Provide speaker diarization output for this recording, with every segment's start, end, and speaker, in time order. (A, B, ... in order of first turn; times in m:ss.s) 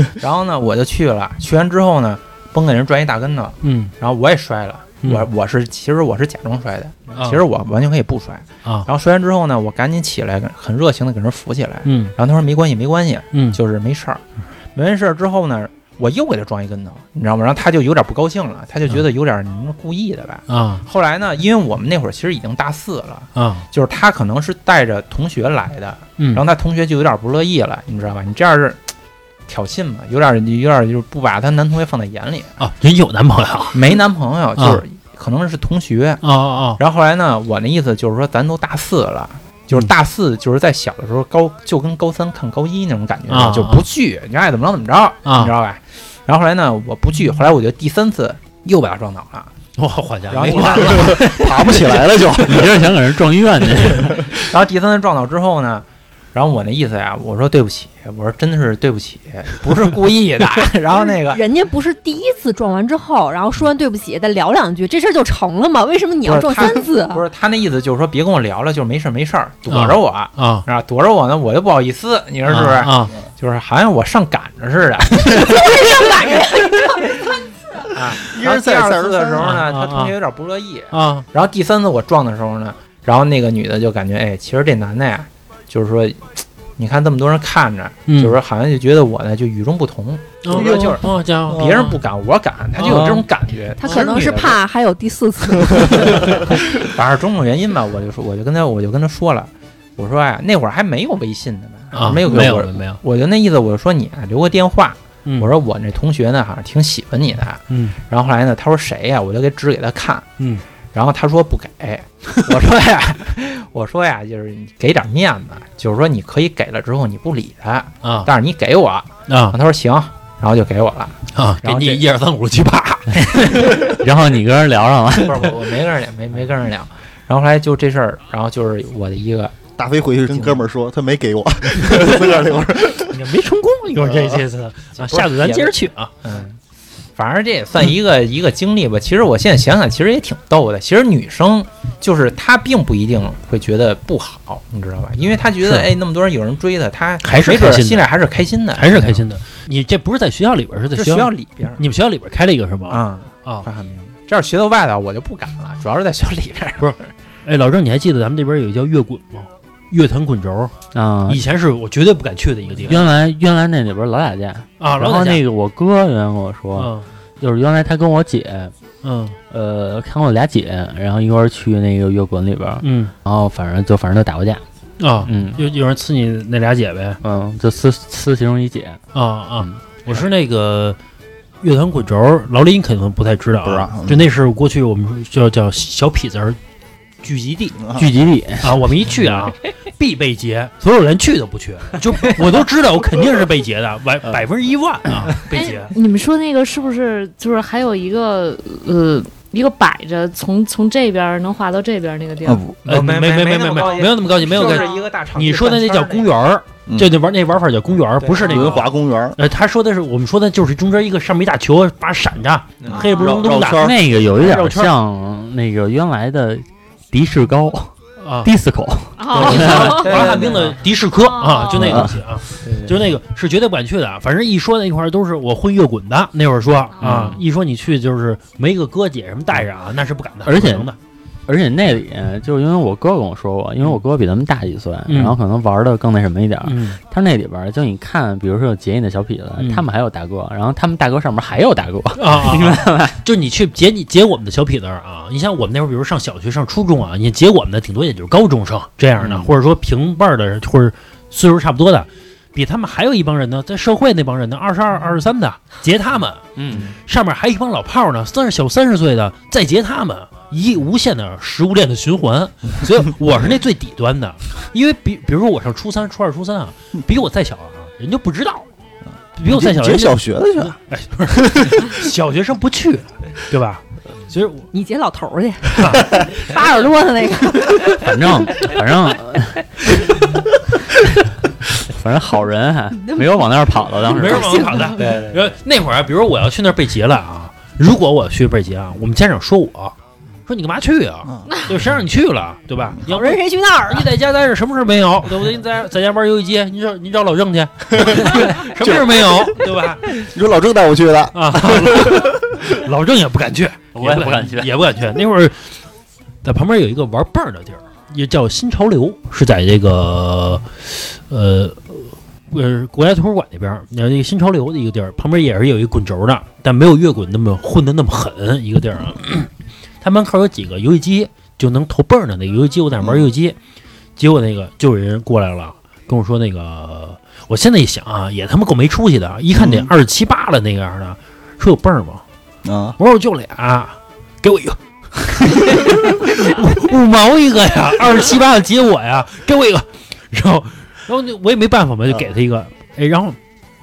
0:00.2-0:14.2 A
0:03.6-0:03.9 B
0:11.8-0:12.1 B
0:13.3-0:13.6 B
0:14.8-0:28.8 A
0:20.5-0:20.8 B
0:23.4-0:23.6 B
0:29.5-0:32.5 A
0:32.6-0:34.0 B
0:33.7-0:36.2 A
0:34.6-0:34.8 B
0:36.2-0:36.8 B
0:36.8-0:49.5 A
0:43.3-0:43.9 B
0:45.2-0:45.5 B
0:49.8-0:52.0 B
0:50.3-0:51.4 A
0:50.7-0:52.7 C
0:52.4-0:54.3 D
0:54.3-1:01.4 A
1:01.3-1:07.2 E
1:06.2-1:15.7 A
1:09.7-1:10.6 B
1:12.5-1:13.1 B
1:15.3-1:17.2 E
1:17.9-1:34.6 A
1:18.2-1:19.6 C
1:19.4-1:20.1 B
1:20.9-1:21.3 B
1:28.1-1:28.4 B
1:30.4-1:32.0 B
1:30.5-1:31.9 C
1:32.8-1:33.3 B
1:33.8-1:36.6 E
1:33.8-1:34.2 B
1:35.9-1:50.3 A
1:41.9-1:43.0 B
1:47.7-1:48.0 B
1:50.9-2:02.0 A
1:58.0-1:58.3 B
1:59.3-1:59.6 B
2:01.3-2:03.8 B
2:03.3-2:05.6 D
2:05.2-2:09.6 A
2:09.8-2:13.2 C
2:10.3-2:10.6 A
2:13.0-2:16.1 B
2:14.2-2:14.4 C
2:15.0-2:16.6 A
2:17.2-2:29.2 A
2:25.6-2:25.9 B
2:27.2-2:28.1 B
2:28.8-2:33.7 B
2:31.0-2:31.8 A
2:32.9-2:36.9 A
2:36.8-2:40.7 B
2:40.9-2:41.4 D
2:41.3-2:43.1 B
2:42.8-2:48.7 D
2:44.8-2:45.4 B
2:46.8-2:47.1 B
2:49.0-2:49.4 B
2:49.5-2:54.6 D
2:52.8-2:53.1 B
2:55.0-2:57.2 B
2:55.2-2:55.6 D
2:57.2-2:59.0 D
2:59.1-3:01.0 B
3:01.6-3:06.6 B
3:03.6-3:04.3 C
3:07.2-3:07.8 B
3:07.8-3:08.1 C
3:08.0-3:09.5 D
3:08.6-3:15.9 B
3:15.5-3:22.6 F
3:22.4-3:22.8 C
3:22.8-3:26.3 A
3:22.8-3:34.9 B
3:24.4-3:25.1 F
3:26.9-3:27.2 C
3:28.2-3:28.8 A
3:28.4-3:29.4 C
3:32.8-3:33.2 A
3:33.0-3:33.4 F
3:33.1-3:34.0 C
3:33.8-3:40.0 D
3:38.2-3:38.5 B
3:39.2-3:40.4 F
3:39.3-3:40.8 A
3:39.3-3:51.0 B
3:41.2-3:42.0 F
3:41.8-3:42.2 D
3:42.6-3:43.1 A
3:47.0-3:47.4 D
3:50.4-3:50.9 D
3:51.5-4:03.2 D
3:55.1-3:55.4 B
3:56.6-3:57.0 B
3:59.6-3:59.8 B
4:02.2-4:28.7 B
4:09.2-4:09.5 D
4:16.6-4:16.9 D
4:29.4-4:34.7 B
4:29.5-4:30.8 C
4:34.7-4:38.7 E
4:38.0-4:39.7 D
4:41.8-4:44.9 D
4:43.0-4:45.2 E
4:44.1-4:50.0 B
4:45.0-4:45.5 A
4:50.5-5:00.2 B
4:51.3-4:51.6 C
4:53.0-4:54.1 E
4:57.9-5:02.7 C
5:01.3-5:05.6 B
5:04.0-5:04.8 D
5:06.4-5:19.5 B
5:20.0-5:23.6 B
5:23.0-5:23.3 C
5:24.2-5:32.2 B
5:29.6-5:29.9 C
5:32.6-5:33.0 C
5:33.0-5:43.4 B